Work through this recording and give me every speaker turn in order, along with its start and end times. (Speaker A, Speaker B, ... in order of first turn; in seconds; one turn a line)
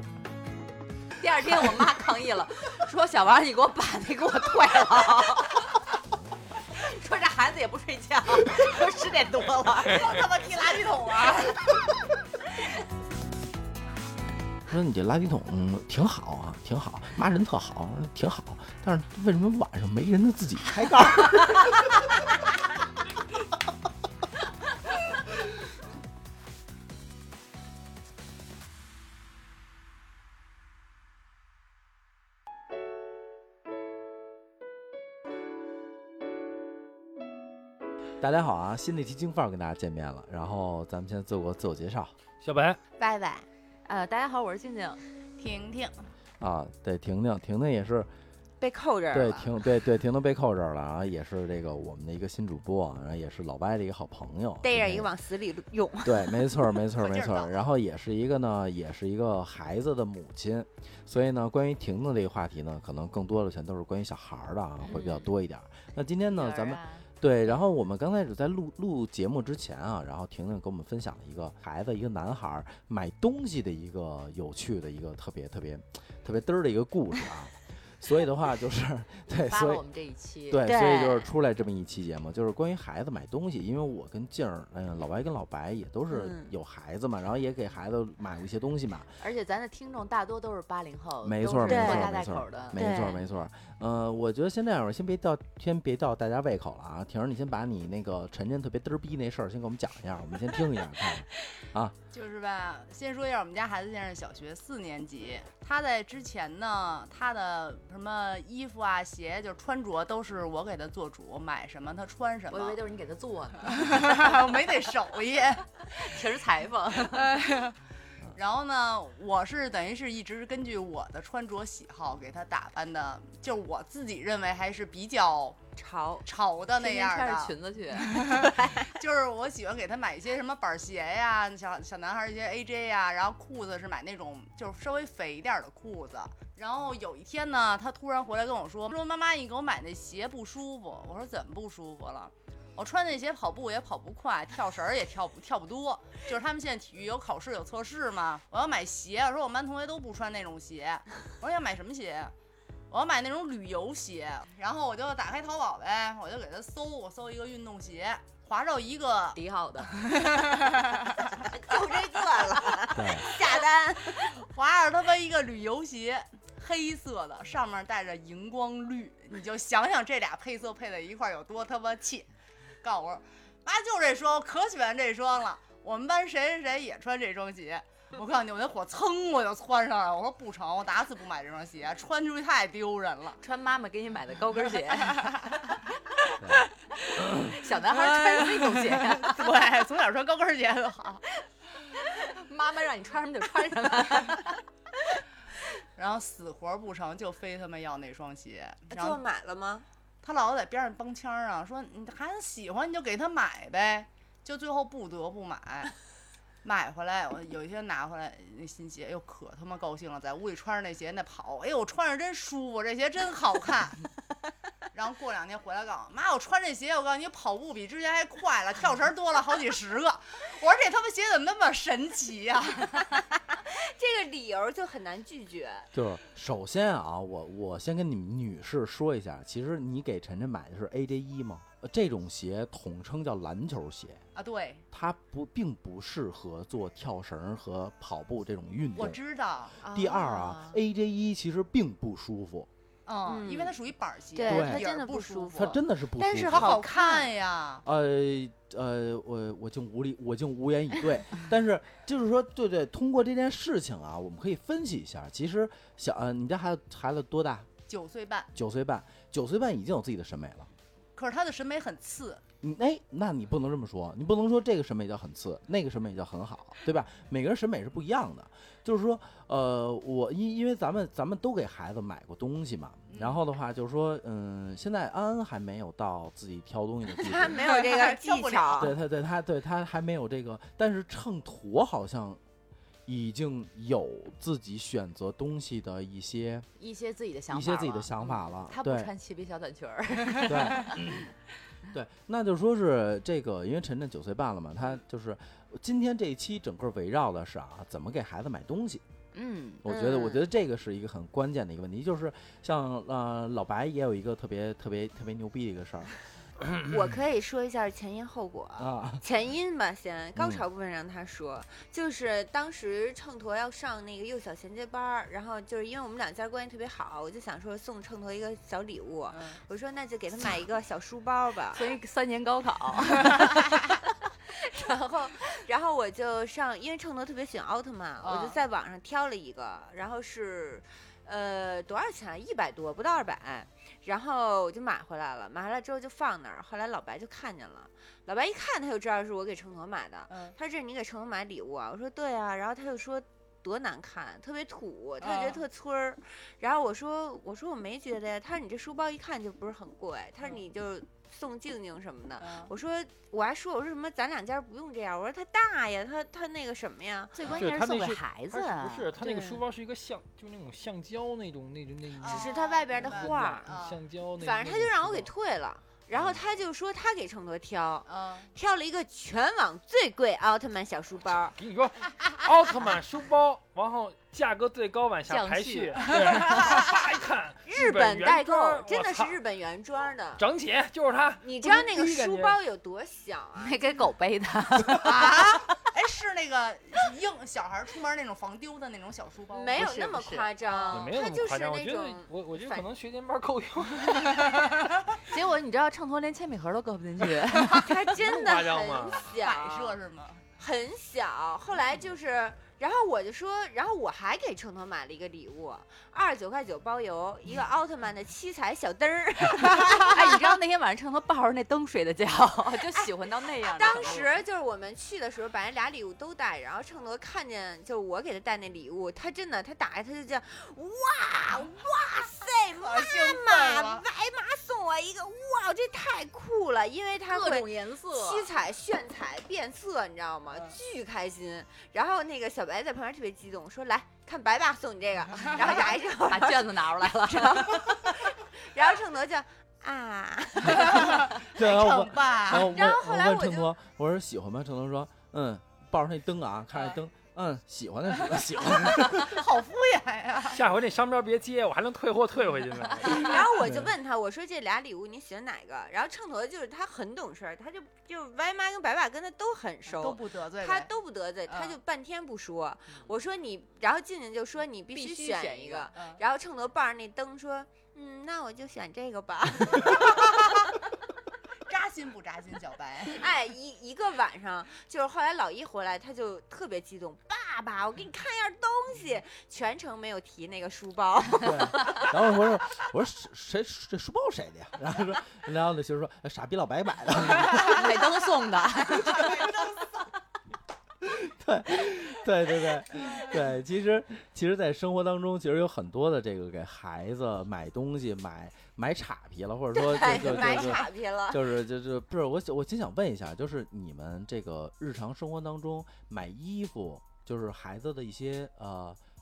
Speaker A: 1.2-5.8
Speaker A: 6.7-10.3
Speaker B: 10.0-11.6
Speaker C: 14.7-22.1
Speaker C: 38.2-42.1
Speaker D: 42.4-42.8
Speaker E: 43.0-43.5
Speaker A: 43.9-45.0
Speaker B: 45.4-46.0
Speaker C: 46.4-48.1
Speaker E: 48.6-49.5
Speaker C: 49.1-55.1
Speaker E: 54.6-56.8
Speaker C: 56.0-79.8
Speaker B: 57.0-57.5
Speaker A: 64.9-65.1
Speaker A: 66.3-67.0
Speaker A: 79.5-80.7
Speaker C: 80.5-89.1
Speaker E: 80.6-81.3
Speaker E: 86.1-86.5
Speaker A: 89.2-92.9
Speaker C: 91.2-101.9
Speaker E: 91.7-92.1
Speaker E: 92.7-93.2
Speaker B: 102.1-112.8
Speaker A: 112.5-114.1
Speaker B: 113.7-115.7
Speaker A: 115.9-117.5
Speaker B: 117.0-117.8
Speaker B: 118.3-125.6
Speaker E: 125.8-126.2
Speaker B: 126.2-152.3
Speaker A: 126.8-128.7
Speaker B: 152.9-159.4
Speaker A: 159.3-159.9
Speaker B: 159.9-161.3
Speaker E: 161.6-164.3
Speaker C: 162.9-163.3
Speaker B: 164.4-172.3
Speaker B: 172.8-183.4
Speaker A: 183.4-185.3
Speaker B: 184.7-185.6
Speaker B: 186.3-186.6
Speaker A: 187.1-189.6
Speaker B: 187.5-191.2
Speaker A: 191.4-195.2
Speaker B: 195.9-199.2
Speaker E: 198.9-199.8
Speaker B: 200.2-205.9
Speaker B: 206.6-214.1
Speaker B: 214.9-223.1
Speaker E: 223.5-225.9
Speaker C: 225.9-234.2
Speaker B: 234.3-234.8
Speaker C: 234.9-239.2
Speaker B: 238.9-239.8
Speaker C: 239.8-242.7
Speaker E: 239.8-240.8
Speaker B: 243.1-247.8
Speaker E: 243.2-243.7
Speaker E: 244.3-247.3
Speaker C: 244.4-245.0
Speaker C: 245.5-246.8
Speaker C: 247.8-257.7
Speaker B: 257.9-258.5
Speaker C: 258.5-260.7
Speaker B: 261.1-262.4
Speaker C: 262.6-277.6
Speaker B: 273.1-273.4
Speaker E: 277.1-278.9
Speaker B: 277.6-278.9
Speaker C: 278.7-282.4
Speaker C: 283.1-286.7
Speaker A: 286.8-291.0
Speaker C: 287.5-289.1
Speaker C: 290.4-291.3
Speaker C: 291.9-299.0
Speaker A: 299.3-299.8
Speaker C: 299.8-306.1
Speaker E: 299.8-300.4
Speaker E: 306.8-321.9
Speaker C: 308.8-309.2
Speaker C: 310.3-310.6
Speaker B: 319.3-319.6
Speaker A: 321.7-323.8
Speaker E: 324.4-357.4
Speaker B: 328.2-328.6
Speaker B: 340.3-340.6
Speaker B: 345.2-345.6
Speaker B: 352.4-352.7
Speaker A: 357.3-359.2
Speaker D: 357.5-365.3
Speaker E: 359.2-359.6
Speaker B: 362.2-364.0
Speaker E: 362.2-363.7
Speaker E: 364.4-371.6
Speaker D: 366.1-366.4
Speaker B: 368.1-368.5
Speaker D: 371.6-379.4
Speaker A: 375.3-376.0
Speaker B: 376.3-376.7
Speaker E: 376.5-376.9
Speaker E: 377.6-380.4
Speaker D: 380.4-382.6
Speaker E: 381.4-383.8
Speaker A: 383.6-385.5
Speaker B: 384.9-389.9
Speaker E: 389.5-392.9
Speaker A: 389.7-390.5
Speaker B: 390.6-391.1
Speaker D: 390.9-394.7
Speaker A: 395.2-397.9
Speaker E: 397.7-400.0
Speaker D: 398.0-399.4
Speaker B: 399.4-400.5
Speaker E: 400.6-410.5
Speaker A: 410.0-414.3
Speaker E: 413.6-441.4
Speaker B: 422.8-424.1
Speaker A: 427.2-428.5
Speaker B: 430.5-430.8
Speaker B: 435.4-435.8
Speaker A: 435.6-437.8
Speaker C: 440.6-440.9
Speaker B: 440.7-442.8
Speaker C: 441.5-449.4
Speaker E: 442.5-443.7
Speaker B: 448.8-450.6
Speaker D: 450.5-453.6
Speaker E: 453.0-470.7
Speaker C: 453.6-453.9
Speaker B: 459.9-460.9
Speaker B: 461.5-461.8
Speaker A: 464.9-465.9
Speaker B: 469.8-470.5
Speaker B: 471.7-473.2
Speaker E: 473.1-482.1
Speaker C: 481.4-487.9
Speaker A: 487.5-489.5
Speaker B: 488.8-490.0
Speaker C: 491.0-509.0
Speaker E: 499.7-501.4